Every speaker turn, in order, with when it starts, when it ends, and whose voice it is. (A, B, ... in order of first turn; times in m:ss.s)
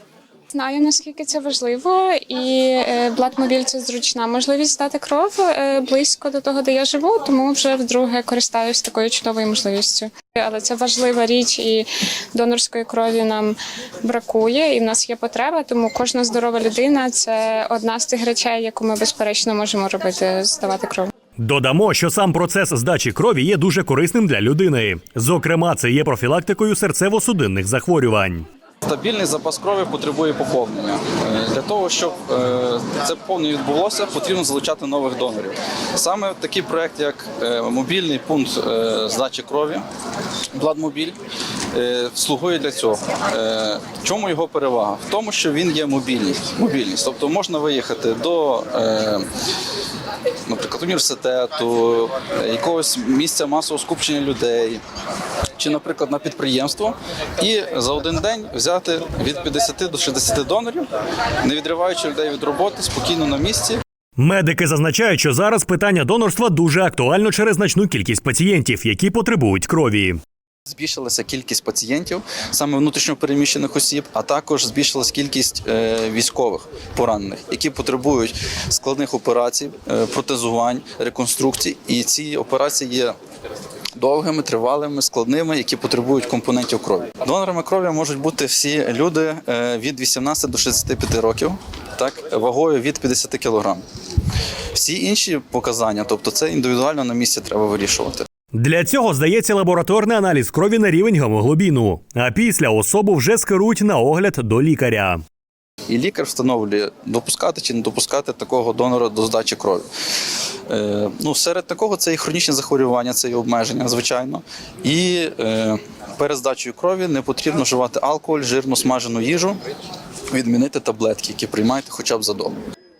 0:00.5-0:21.1 A
0:21.4-0:28.5 B
0:28.8-0:39.8 C
0:40.5-0:41.2 C
0:41.7-0:49.3 C
0:50.5-0:54.8 C
0:55.6-1:00.9 C
1:01.4-1:03.8 C
1:04.2-1:10.2 B
1:10.7-1:23.2 C
1:24.0-1:33.8 C
1:34.7-1:38.2 C
1:38.5-1:45.2 B
1:45.9-1:49.9 C
1:50.7-1:59.6 C
2:00.3-2:02.6 C